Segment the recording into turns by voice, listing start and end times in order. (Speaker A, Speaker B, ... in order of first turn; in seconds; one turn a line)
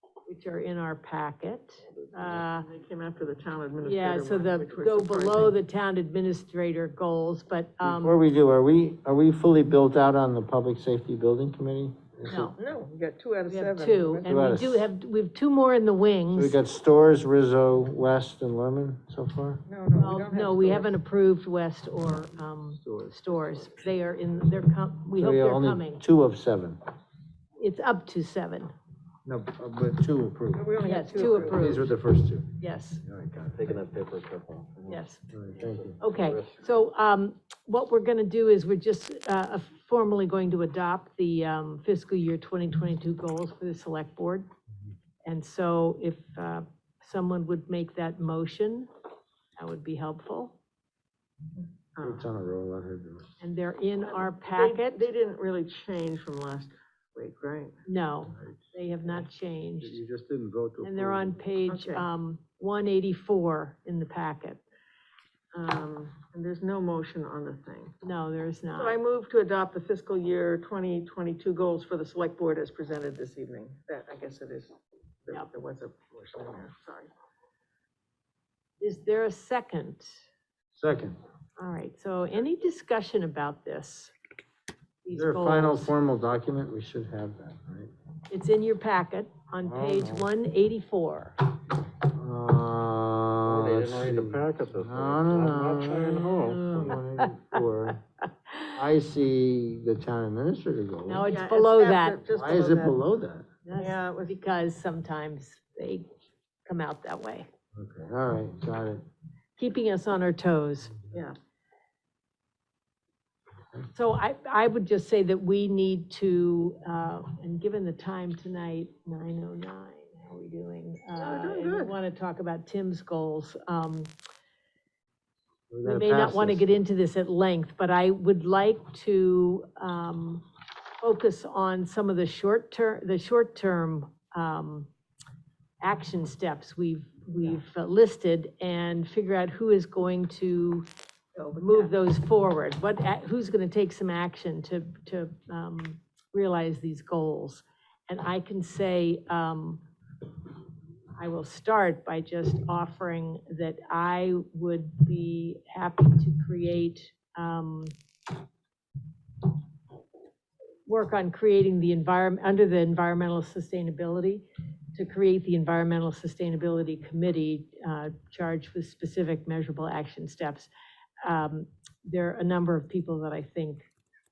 Speaker A: 0.3-2.7
Speaker B: 2.6-5.6
Speaker A: 3.8-8.2
Speaker C: 7.8-12.5
Speaker A: 12.3-12.5
Speaker B: 12.6-14.3
Speaker A: 13.5-16.6
Speaker C: 14.3-14.9
Speaker C: 16.3-19.6
Speaker B: 19.7-20.9
Speaker A: 19.9-26.0
Speaker C: 25.2-26.8
Speaker A: 27.6-28.7
Speaker C: 29.2-32.5
Speaker B: 30.5-31.9
Speaker A: 30.8-31.9
Speaker A: 32.6-33.0
Speaker C: 33.1-33.5
Speaker D: 33.2-35.0
Speaker A: 34.9-35.2
Speaker C: 35.3-36.0
Speaker D: 35.5-36.6
Speaker A: 36.0-44.5
Speaker A: 45.3-48.9
Speaker A: 49.6-50.6
Speaker B: 52.0-52.2
Speaker C: 52.0-53.3
Speaker A: 53.4-55.1
Speaker B: 54.1-57.8
Speaker A: 57.9-60.0
Speaker C: 59.8-61.3
Speaker A: 60.8-64.6
Speaker B: 61.7-62.0
Speaker B: 65.5-68.0
Speaker A: 68.0-69.0
Speaker B: 68.8-74.8
Speaker B: 75.3-77.1
Speaker A: 78.8-80.2
Speaker C: 80.8-81.2
Speaker A: 81.6-84.1
Speaker A: 85.0-85.9
Speaker C: 85.1-87.9
Speaker A: 88.3-91.4
Speaker C: 89.6-90.3
Speaker C: 92.0-98.0
Speaker D: 93.4-97.0
Speaker A: 96.5-97.3
Speaker C: 98.8-101.3
Speaker A: 101.1-102.2
Speaker B: 101.3-103.0
Speaker C: 102.3-103.5
Speaker A: 103.7-106.1
Speaker B: 103.8-104.3
Speaker A: 106.7-107.5
Speaker C: 107.8-109.0
Speaker A: 109.6-110.9
Speaker A: 113.9-124.1
Speaker B: 121.2-121.9
Speaker C: 125.7-126.8
Speaker A: 125.8-130.4
Speaker A: 131.0-134.9
Speaker A: 135.8-140.9
Speaker B: 141.4-141.9
Speaker A: 141.6-149.8
Speaker A: 151.2-157.9
Speaker A: 160.9-170.7
Speaker A: 171.2-173.9